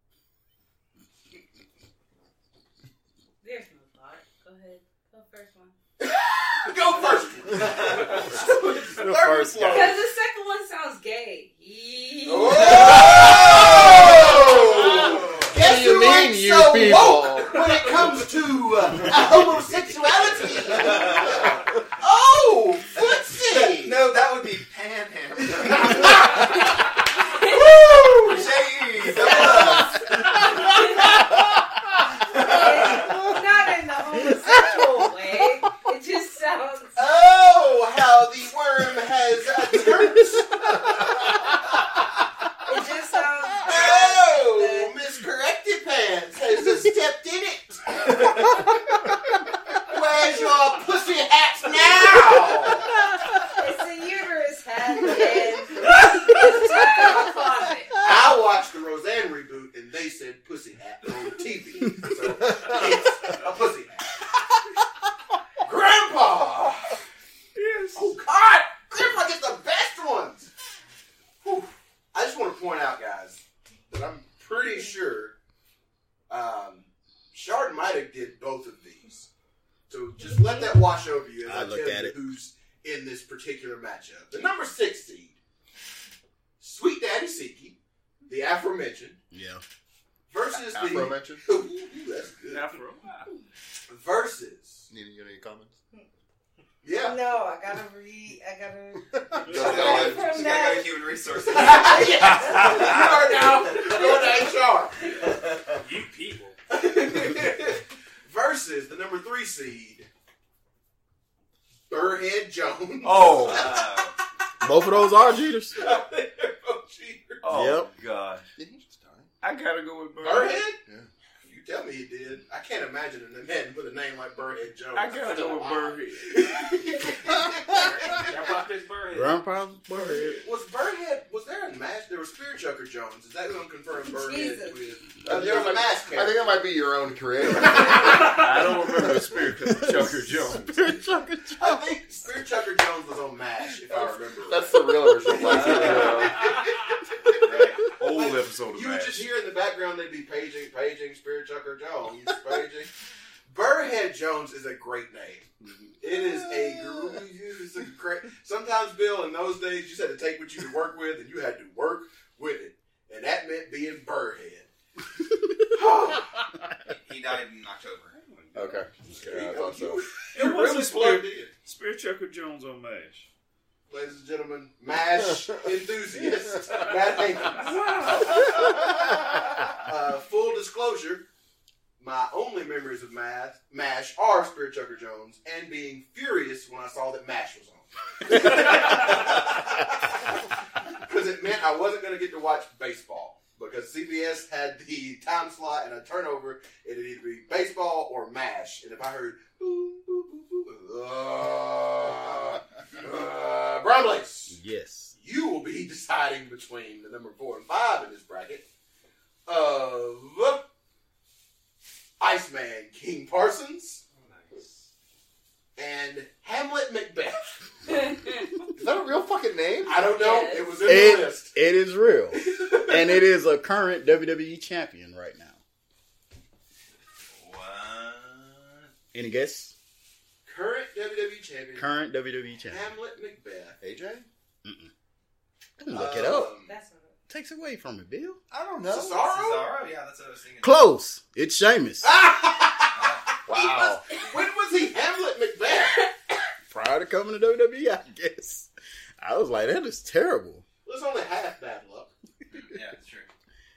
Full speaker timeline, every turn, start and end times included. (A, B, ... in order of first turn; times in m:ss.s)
0:03.4-0:05.8 A
0:06.0-0:10.0 B
0:08.3-0:10.0 C
0:09.7-0:15.4 A
0:12.2-0:24.0 B
0:13.1-0:14.0 D
0:14.9-0:15.5 D
0:15.5-0:17.9 C
0:20.3-0:21.5 D
0:23.5-0:26.4 D
0:25.5-0:26.6 B
0:27.2-0:28.4 A
0:27.5-0:28.4 B
0:28.2-0:29.9 D
0:29.0-0:31.3 A
0:29.2-0:29.8 B
0:32.3-0:33.2 D
0:32.3-0:37.0 A
0:37.0-0:42.0 B
0:42.6-0:44.9 A
0:43.6-0:48.5 B
0:49.8-0:52.9 B
0:53.5-0:58.0 A
0:58.0-1:04.4 B
1:05.6-1:07.0 B
1:07.6-1:08.1 E
1:07.9-1:10.5 B
1:11.4-1:15.4 B
1:16.3-1:19.3 B
1:19.9-1:25.4 B
1:20.2-1:20.6 A
1:21.4-1:22.2 F
1:26.6-1:29.2 B
1:29.3-1:29.6 F
1:30.3-1:32.7 B
1:30.5-1:31.4 C
1:32.5-1:33.3 E
1:33.9-1:34.8 B
1:34.9-1:35.8 C
1:36.8-1:37.2 B
1:37.0-1:44.5 A
1:39.1-1:40.3 C
1:39.5-1:43.2 D
1:39.5-1:40.3 B
1:41.4-1:45.2 B
1:45.1-1:45.8 D
1:45.8-1:46.6 G
1:46.7-1:50.1 B
1:51.9-1:53.9 B
1:53.0-1:53.8 E
1:53.3-1:54.2 D
1:54.6-1:56.0 F
1:55.8-1:57.5 B
1:57.4-1:58.5 E
1:57.5-1:57.9 F
1:58.6-1:59.3 C
1:59.4-2:00.7 E
2:00.2-2:00.8 B
2:01.4-2:08.4 B
2:05.0-2:06.3 E
2:07.7-2:09.4 G
2:09.1-2:10.4 F
2:10.4-2:16.4 B
2:14.1-2:15.0 A
2:15.2-2:18.4 C
2:17.6-2:18.2 B
2:18.2-2:20.7 E
2:18.8-2:21.9 F
2:21.6-2:32.9 B
2:24.3-2:26.4 C
2:25.4-2:26.5 E
2:25.6-2:26.1 D
2:27.5-2:29.2 E
2:33.5-2:35.5 B
2:35.6-2:35.9 E
2:36.0-2:44.7 B
2:36.3-2:37.1 C
2:45.7-2:46.3 B
2:46.9-2:48.1 D
2:48.1-2:48.9 E
2:48.5-2:50.0 C
2:49.2-2:51.5 B
2:50.3-2:53.3 E
2:53.9-2:58.9 B
2:57.6-2:58.8 E
2:59.7-3:01.2 B
3:02.0-3:10.1 B
3:10.9-3:24.6 B
3:24.5-3:25.1 F
3:25.1-3:28.6 B
3:29.5-3:30.7 B
3:32.2-3:34.0 B
3:34.1-3:34.9 G
3:35.8-3:37.5 B
3:37.9-3:38.4 A
3:38.7-3:40.0 C
3:39.8-3:41.6 B
3:40.1-3:40.8 A
3:40.8-3:45.6 F
3:42.3-3:43.2 B
3:47.3-3:48.9 D
3:49.1-3:49.7 F
3:50.5-3:51.9 B
3:51.8-3:52.9 F
3:52.7-3:53.8 B
3:53.8-3:54.3 C
3:54.6-3:54.9 F
3:55.8-3:56.5 F
3:55.9-3:56.7 B
3:56.6-3:57.2 A
3:57.3-3:58.4 F
3:58.5-3:59.2 C
3:58.9-3:59.7 B
3:59.1-4:00.8 D
4:00.6-4:02.1 F
4:02.0-4:06.3 B
4:03.0-4:03.2 D
4:03.5-4:04.0 C
4:06.7-4:10.6 F
4:10.8-4:12.1 B
4:12.5-4:13.3 D